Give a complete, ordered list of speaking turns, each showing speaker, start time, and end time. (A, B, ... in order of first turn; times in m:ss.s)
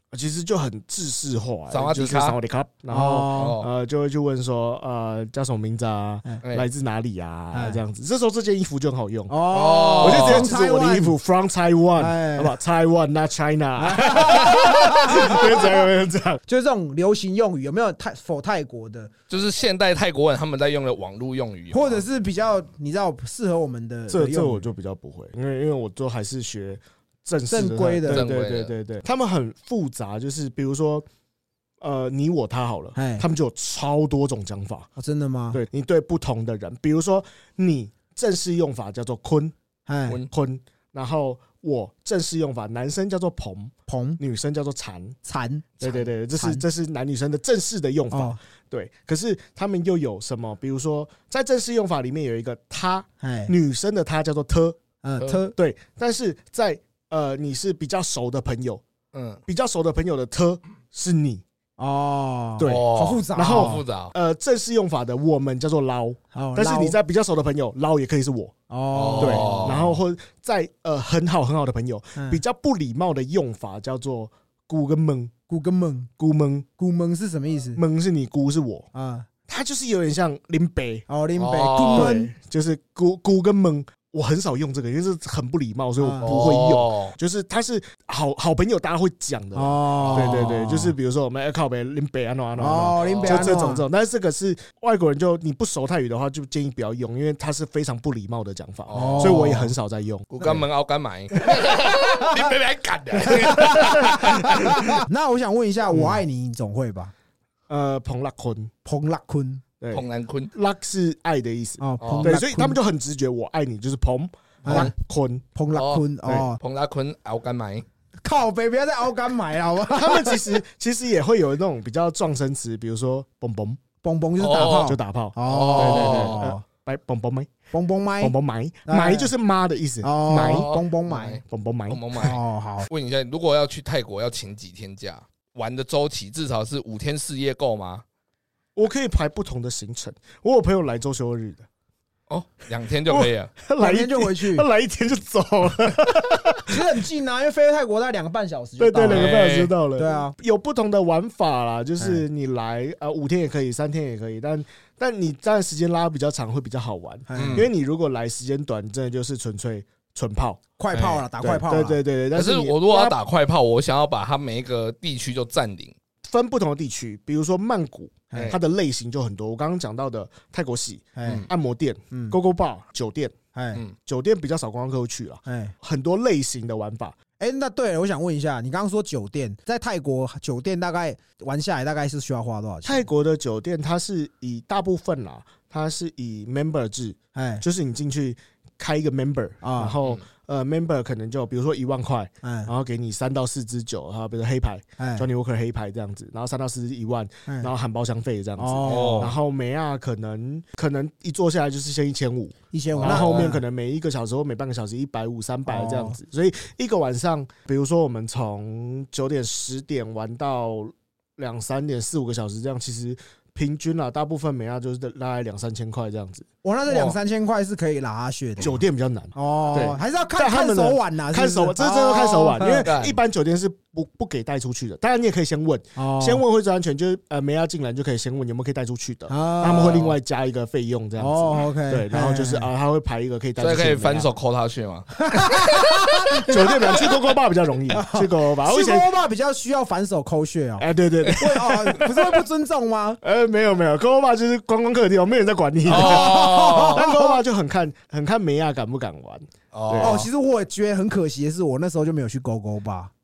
0:00.1-0:09.3 A
0:01.7-0:02.4 B
0:02.9-0:03.6 C
0:03.3-0:03.7 B
0:07.5-0:07.8 C
0:09.3-0:11.1 C
0:09.5-0:10.5 B
0:10.0-0:16.4 A
0:12.0-0:12.5 C
0:13.8-0:15.8 C
0:16.5-0:19.1 C
0:19.3-0:22.0 B
0:21.7-0:24.7 C
0:24.1-0:31.0 A
0:27.5-0:28.2 C
0:28.0-0:28.7 B
0:31.8-0:34.9 A
0:33.0-0:33.2 C
0:35.0-0:35.6 C
0:35.5-0:39.5 A
0:39.8-0:40.2 C
0:40.3-0:45.2 A
0:43.9-0:44.2 C
0:45.2-0:46.6 C
0:45.8-0:54.8 A
0:48.1-0:48.4 C
0:53.2-0:53.5 C
0:55.0-0:55.5 C
0:55.5-0:58.8 A
0:59.1-0:59.4 B
0:59.5-1:01.4 A
1:01.8-1:03.8 C
1:02.6-1:08.5 A
1:02.6-1:04.1 B
1:06.3-1:07.0 C
1:08.7-1:09.8 C
1:08.9-1:10.0 B
1:09.2-1:15.3 A
1:12.1-1:12.4 C
1:15.5-1:16.1 C
1:16.2-1:16.7 A
1:16.8-1:17.8 C
1:17.7-1:18.9 A
1:18.9-1:19.3 C
1:19.5-1:21.0 A
1:21.1-1:22.3 C
1:21.4-1:22.1 B
1:21.9-1:40.4 A
1:26.0-1:26.3 C
1:26.2-1:27.1 B
1:29.5-1:30.9 C
1:30.0-1:30.5 B
1:32.6-1:33.8 C
1:33.0-1:33.6 B
1:38.9-1:39.5 B
1:38.9-1:39.7 C
1:40.3-1:44.9 B
1:43.3-1:44.4 A
1:43.3-1:47.1 C
1:45.9-1:46.2 A
1:47.7-1:48.7 A
1:48.8-1:49.6 C
1:49.8-1:55.4 A
1:49.9-1:50.5 B
1:51.8-1:52.8 C
1:52.0-1:52.3 B
1:54.6-1:54.9 C
1:54.7-1:54.9 B
1:55.5-1:56.6 C
1:55.7-1:57.8 B
1:58.2-2:00.6 C
1:59.9-2:03.8 A
2:04.0-2:06.6 C
2:04.4-2:04.9 B
2:04.5-2:07.5 A
2:05.5-2:06.4 B
2:07.7-2:08.3 C
2:08.2-2:10.7 A
2:08.8-2:09.3 C
2:10.0-2:11.4 C
2:10.4-2:18.0 B
2:11.4-2:12.3 A
2:12.2-2:12.9 C
2:18.7-2:21.6 A
2:22.3-2:23.5 B
2:23.1-2:26.9 A
2:23.8-2:24.7 C
2:26.6-2:29.4 C
2:28.8-2:40.6 A
2:29.1-2:29.7 B
2:30.0-2:30.3 C
2:37.3-2:37.7 C
2:37.3-2:37.7 B
2:40.8-2:42.0 C
2:40.9-2:41.2 B
2:41.4-2:43.2 A
2:42.3-2:45.9 B
2:46.3-2:53.3 A
2:48.3-2:48.6 C
2:48.3-2:48.6 B
2:51.2-2:51.4 C
2:52.1-2:52.4 C
2:53.5-2:53.8 C
2:54.0-2:57.2 A
2:55.4-2:55.7 C
2:57.4-3:03.0 C
3:02.8-3:36.4 A
3:07.3-3:07.6 C
3:09.6-3:10.0 C
3:12.4-3:12.7 C
3:15.0-3:15.3 C
3:18.6-3:19.3 C
3:18.8-3:19.3 B
3:22.7-3:23.6 C
3:23.0-3:23.6 B
3:25.7-3:26.2 C
3:36.6-3:38.8 C
3:36.9-3:37.2 B
3:38.6-3:54.3 A
3:39.3-3:42.9 C
3:42.8-3:43.2 B
3:46.0-3:46.4 C
3:49.3-3:50.0 C
3:49.8-3:50.1 B
3:51.2-3:52.7 C
3:53.6-3:56.2 B
3:55.2-3:57.0 C
3:56.4-3:59.1 A
3:57.9-4:03.2 C
4:00.8-4:02.4 A
4:03.2-4:10.3 A
4:05.8-4:07.1 B
4:05.9-4:07.4 C
4:09.7-4:10.3 B
4:10.0-4:13.1 C